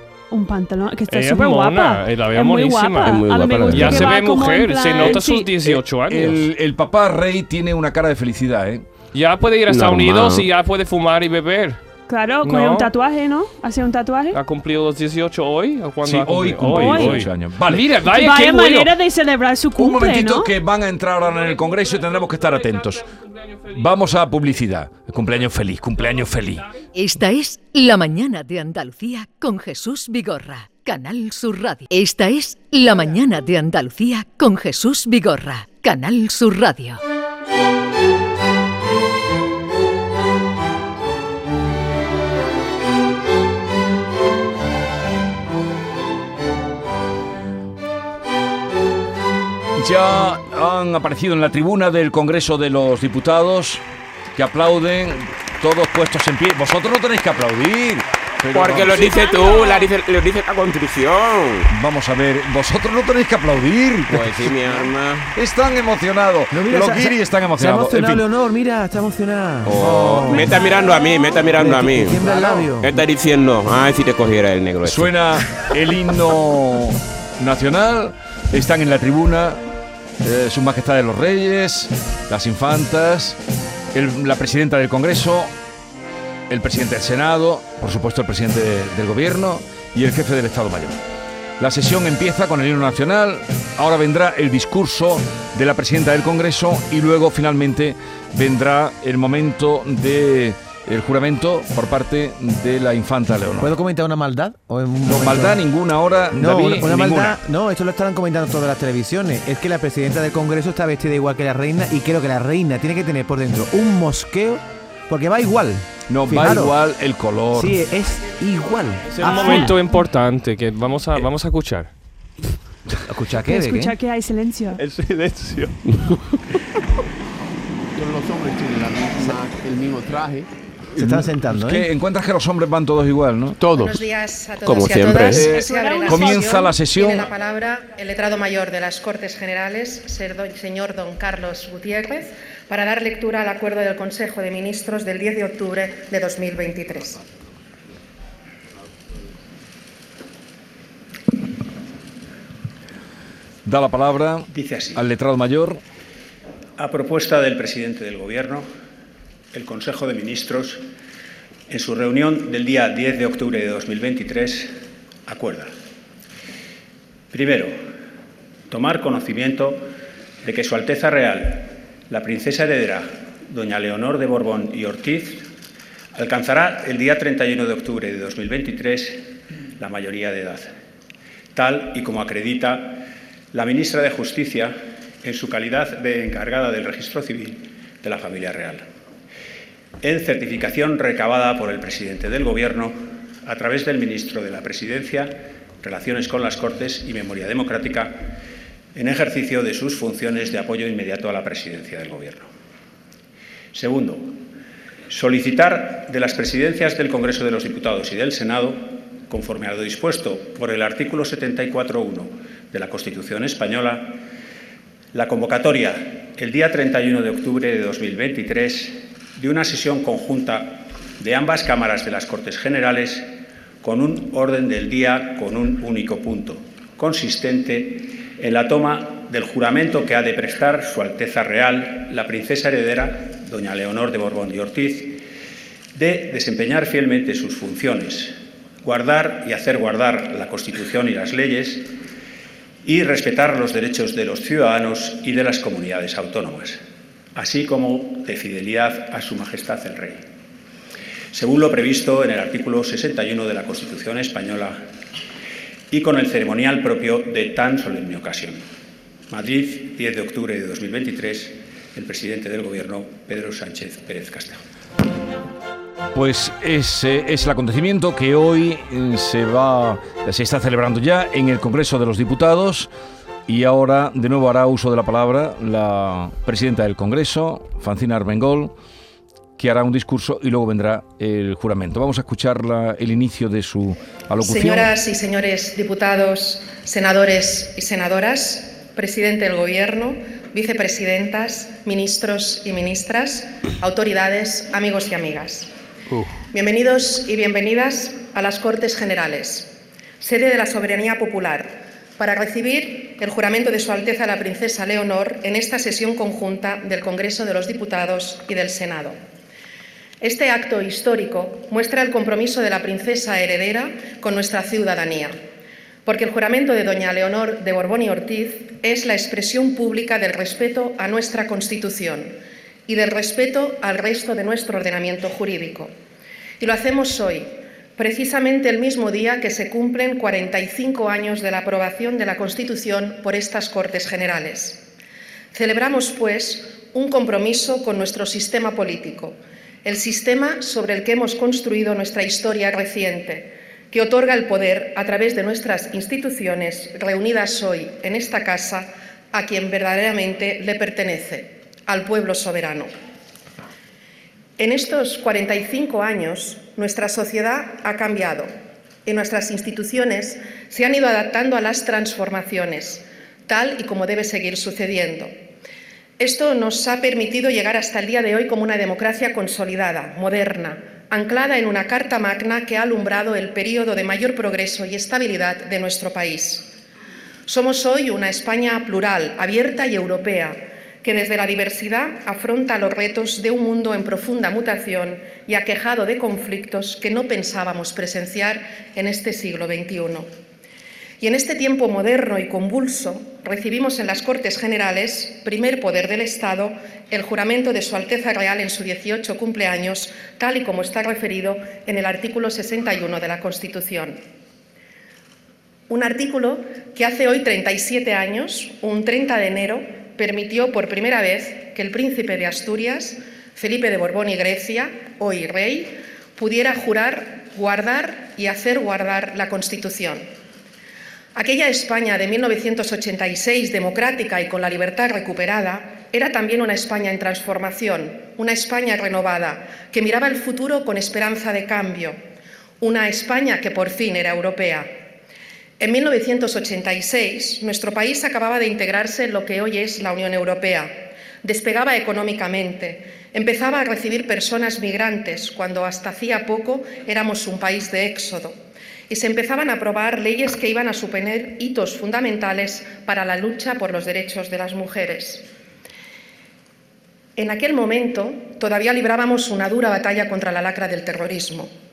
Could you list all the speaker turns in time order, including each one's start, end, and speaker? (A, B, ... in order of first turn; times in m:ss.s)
0:00.3-0:05.6 A
0:01.1-0:06.5 B
0:03.1-0:04.1 C
0:05.7-0:08.8 D
0:09.1-0:11.8 B
0:09.7-0:10.5 C
0:12.1-0:14.4 A
0:12.4-0:12.9 B
0:14.3-0:18.9 B
0:16.0-0:17.9 D
0:16.6-0:17.3 A
0:18.0-0:20.5 A
0:19.8-0:23.0 D
0:21.3-0:23.8 B
0:23.7-0:26.6 D
0:26.9-0:37.0 E
0:49.8-0:53.8 D
0:54.3-0:59.2 D
0:58.5-1:01.7 C
0:58.9-0:59.9 A
1:01.7-1:04.7 D
1:04.1-1:05.3 C
1:05.3-1:08.2 D
1:06.5-1:10.5 F
1:09.6-1:15.1 C
1:10.3-1:11.4 A
1:11.6-1:12.9 F
1:14.8-1:19.6 D
1:20.2-1:23.4 D
1:23.9-1:25.5 D
1:26.5-1:31.0 D
1:31.6-1:43.7 D
1:43.6-1:45.6 F
1:45.0-1:47.4 D
1:46.3-1:56.7 F
1:56.1-1:57.8 D
1:57.5-1:59.7 F
1:59.1-2:01.9 B
1:59.2-2:00.0 A
2:03.0-2:03.9 F
2:03.4-2:04.8 A
2:04.8-2:05.8 B
2:07.9-2:10.5 G
2:11.0-2:11.9 F
2:11.0-2:13.6 D
2:13.6-2:14.0 G
2:13.7-2:27.2 H
2:14.6-2:15.4 C
2:15.3-2:17.3 D
2:15.5-2:16.7 A
2:33.6-2:35.8 D
2:34.5-2:35.0 I
2:36.8-2:38.7 I
2:39.5-2:40.8 I
2:41.7-2:44.7 I
2:45.2-2:45.7 I
2:47.3-2:47.7 I
2:48.7-2:49.9 I
2:50.4-2:55.4 I
2:56.1-3:00.7 I
3:01.5-3:08.8 I
3:10.0-3:18.3 I
3:18.9-3:22.5 I
3:23.7-3:24.4 I
3:25.1-3:34.2 I
3:35.1-3:43.3 I
3:43.8-3:55.2 I
3:55.9-4:01.9 I
4:02.8-4:06.8 I
4:07.3-4:10.2 I
4:11.3-4:14.8 I
4:15.9-4:18.6 I
4:19.3-4:24.6 I
4:26.1-4:32.9 D
4:33.5-4:38.7 D
4:39.6-4:44.9 D
4:44.4-4:55.7 H
4:56.5-5:09.2 H
5:10.2-5:15.4 H
5:16.0-5:22.3 H
5:22.9-5:25.9 H
5:26.6-5:34.8 H
5:35.5-5:52.9 H
5:54.6-5:58.5 H
5:59.0-6:05.3 H
6:06.2-6:16.7 H
6:17.4-6:30.3 H
6:31.2-6:44.2 H
6:45.9-7:00.2 H
7:01.3-7:12.2 H
7:12.8-7:15.0 H
7:15.8-7:28.6 H
7:29.1-7:35.4 H
7:37.4-7:41.7 H